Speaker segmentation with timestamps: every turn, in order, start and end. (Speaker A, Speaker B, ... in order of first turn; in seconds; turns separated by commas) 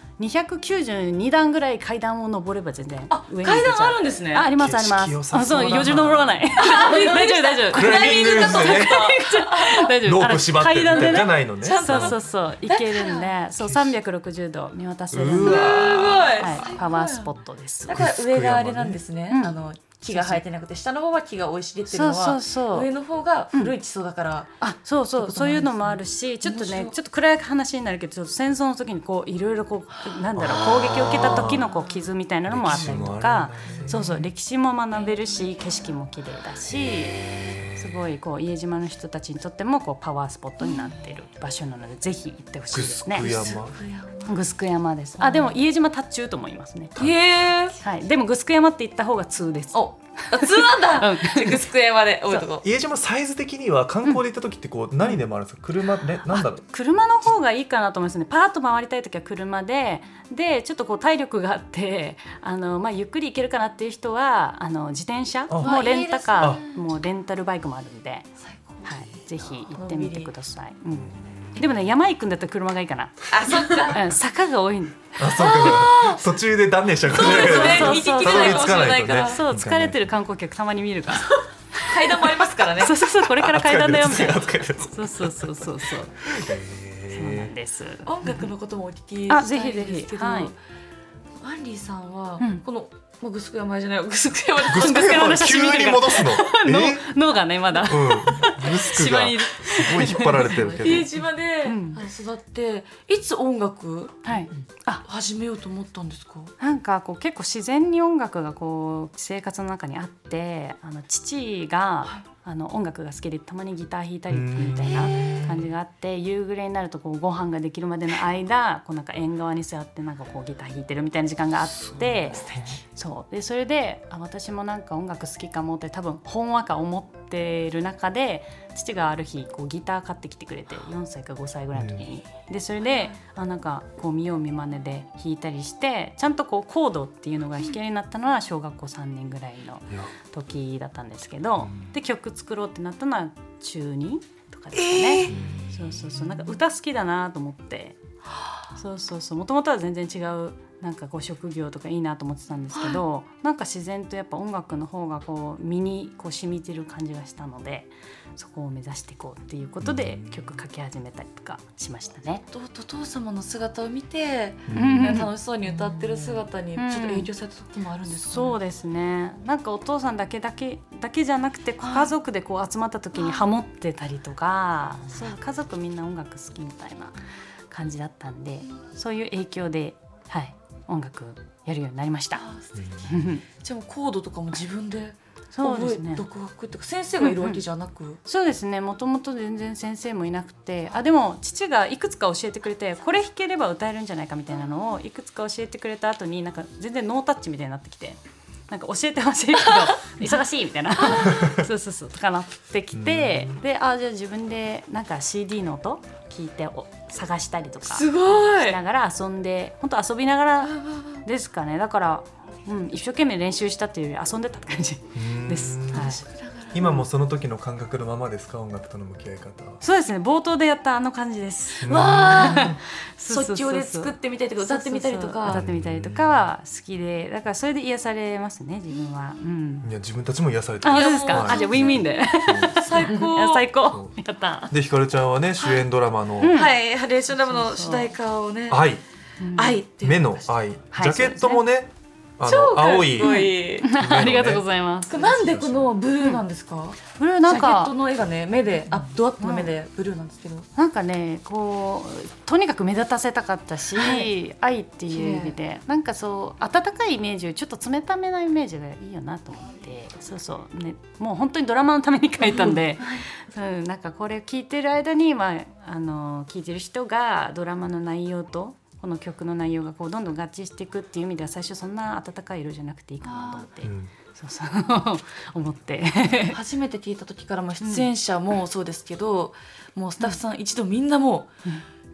Speaker A: 0.2-18.0, Speaker B: 3.1-4.5, Speaker C: 4.5-6.4, Speaker B: 6.5-9.9, Speaker C: 7.7-9.1, Speaker C: 10.0-12.2, Speaker B: 10.9-13.3, Speaker C: 13.6-14.0, Speaker C: 15.1-16.7, Speaker B: 15.4-17.3, Speaker B: 17.9-24.6, Speaker C: 17.9-19.0, Speaker A: 19.3-19.6, Speaker A: 20.1-20.4, Speaker A: 21.9-22.9, Speaker A: 24.6-43.3, Speaker B: 25.1-26.9, Speaker B: 30.3-31.9, Speaker C: 30.4-31.7, Speaker C: 32.5-34.1, Speaker B: 33.7-34.2, Speaker B: 40.6-40.9, Speaker C: 42.7-43.7, Speaker B: 43.1-44.5, Speaker A: 44.3-47.0, Speaker B: 45.2-45.6, Speaker B: 47.0-47.8, Speaker A: 47.8-51.6, Speaker B: 49.7-52.6, Speaker C: 52.6-56.6, Speaker A: 56.3-68.3, Speaker C: 65.5-65.8, Speaker B: 65.6-66.8, Speaker B: 68.4-69.1, Speaker A: 68.8-75.9, Speaker B: 69.7-70.3, Speaker C: 70.9-71.6, Speaker B: 73.3-74.1, Speaker C: 75.2-80.0, Speaker B: 75.3-76.2, Speaker B: 77.1-79.4, Speaker A: 77.1-86.2, Speaker B: 81.8-83.0, Speaker C: 83.1-87.5, Speaker A: 87.1-88.5, Speaker B: 88.0-90.5, Speaker A: 89.3-90.5, Speaker B: 91.4-95.3, Speaker C: 94.7-97.1, Speaker A: 94.7-100.8, Speaker C: 97.7-101.2, Speaker B: 100.7-104.3, Speaker A: 101.6-102.0, Speaker A: 104.2-105.0, Speaker B: 105.0-106.5, Speaker A: 106.6-148.0, Speaker C: 114.3-115.7, Speaker B: 121.9-122.8, Speaker C: 122.4-122.8, Speaker C: 131.7-132.0, Speaker C: 141.6-141.9, Speaker B: 144.7-145.4, Speaker C: 145.3-146.4, Speaker A: 148.7-162.4, Speaker B: 152.7-153.0, Speaker C: 159.8-160.4, Speaker B: 162.5-168.6, Speaker C: 164.7-165.1, Speaker A: 164.7-165.3, Speaker A: 166.7-167.3, Speaker A: 168.2-177.1, Speaker B: 171.8-172.1, Speaker B: 173.1-173.4, Speaker A: 177.7-182.4, Speaker B: 182.3-182.8, Speaker C: 182.8-183.2, Speaker A: 183.1-183.4, Speaker B: 183.6-188.2, Speaker A: 185.5-186.2, Speaker A: 187.2-187.6, Speaker A: 188.2-216.2, Speaker B: 199.8-200.3, Speaker B: 200.9-201.4, Speaker C: 202.9-203.6, Speaker B: 207.8-208.8, Speaker B: 210.7-211.2, Speaker C: 215.1-216.2, Speaker B: 215.9-216.9, Speaker C: 216.7-219.8, Speaker A: 219.8-229.9, Speaker B: 221.8-225.7, Speaker C: 221.8-222.8, Speaker C: 225.5-226.5, Speaker C: 229.8-232.8, Speaker A: 230.8-234.7, Speaker B: 230.8-232.2, Speaker B: 232.7-233.7, Speaker C: 233.9-234.2, Speaker C: 234.7-236.6, Speaker B: 235.6-235.9, Speaker A: 236.4-236.7, Speaker B: 236.5-238.9, Speaker A: 237.3-238.1, Speaker C: 238.7-239.0, Speaker A: 239.4-239.8, Speaker B: 239.6-240.5, Speaker C: 240.0-244.6, Speaker A: 240.9-241.6, Speaker B: 242.4-243.9, Speaker A: 243.2-245.3, Speaker B: 245.1-250.7, Speaker C: 245.2-245.9, Speaker A: 247.1-247.9, Speaker A: 248.8-249.7, Speaker A: 250.7-276.6, Speaker B: 253.9-254.3, Speaker B: 255.1-255.6, Speaker B: 262.4-263.2, Speaker B: 273.2-273.6, Speaker C: 273.8-274.1, Speaker B: 276.5-281.5, Speaker A: 277.8-278.1